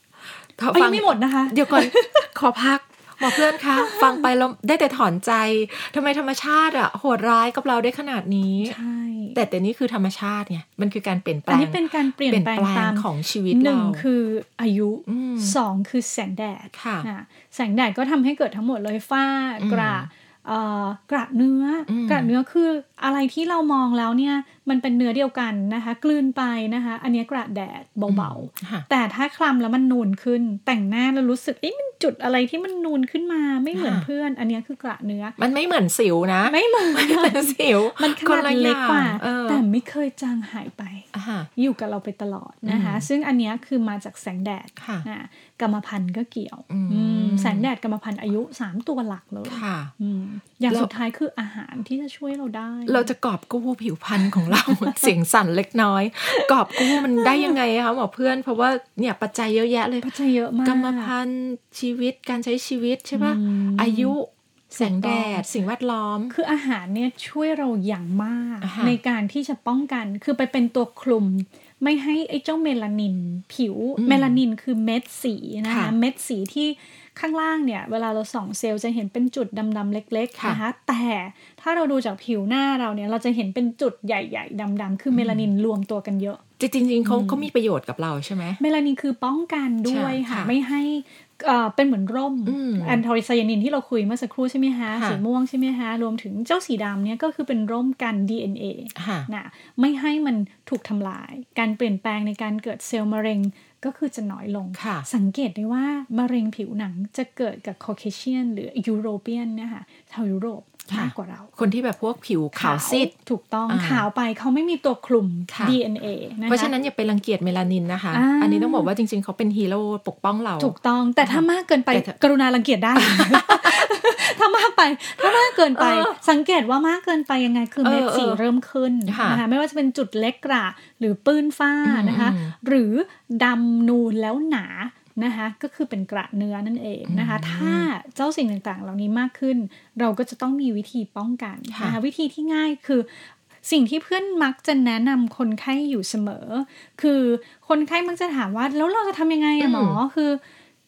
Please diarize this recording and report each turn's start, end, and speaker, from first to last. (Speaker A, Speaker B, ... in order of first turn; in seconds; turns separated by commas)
Speaker A: 0.6-8.8, Speaker B: 0.7-2.3, Speaker B: 3.2-4.2, Speaker B: 8.6-9.4, Speaker A: 9.3-14.0, Speaker B: 11.5-35.4, Speaker A: 15.1-15.5, Speaker A: 16.7-17.1, Speaker A: 19.6-20.1, Speaker A: 21.9-22.3, Speaker A: 28.1-28.8, Speaker A: 33.7-34.1, Speaker A: 35.4-39.6, Speaker B: 36.5-53.1, Speaker A: 41.1-41.5, Speaker A: 42.6-43.1, Speaker A: 44.8-45.0, Speaker A: 46.7-47.7, Speaker A: 49.4-49.9, Speaker A: 52.9-60.1, Speaker B: 54.2-55.1, Speaker B: 56.3-57.5, Speaker B: 60.0-61.1, Speaker A: 60.6-66.3, Speaker B: 63.1-64.2, Speaker B: 64.7-65.5, Speaker B: 66.3-86.4, Speaker A: 68.6-69.0, Speaker A: 74.0-74.4, Speaker A: 75.7-75.9, Speaker A: 80.3-80.6, Speaker A: 85.1-85.5, Speaker A: 86.6-88.6, Speaker B: 87.0-87.5, Speaker B: 88.6-111.5, Speaker A: 89.9-90.5, Speaker A: 92.5-93.0, Speaker A: 94.9-95.2, Speaker A: 98.9-99.3, Speaker A: 104.7-105.1, Speaker A: 110.9-113.1, Speaker B: 112.5-116.7, Speaker A: 113.7-114.0, Speaker A: 115.5-115.8, Speaker A: 116.5-122.1, Speaker B: 118.1-118.9, Speaker B: 120.6-150.4, Speaker A: 123.0-123.9, Speaker A: 125.2-126.2, Speaker A: 127.8-128.4, Speaker A: 129.1-129.4, Speaker A: 131.8-132.5, Speaker A: 137.1-137.9, Speaker A: 141.7-142.0, Speaker A: 149.6-150.0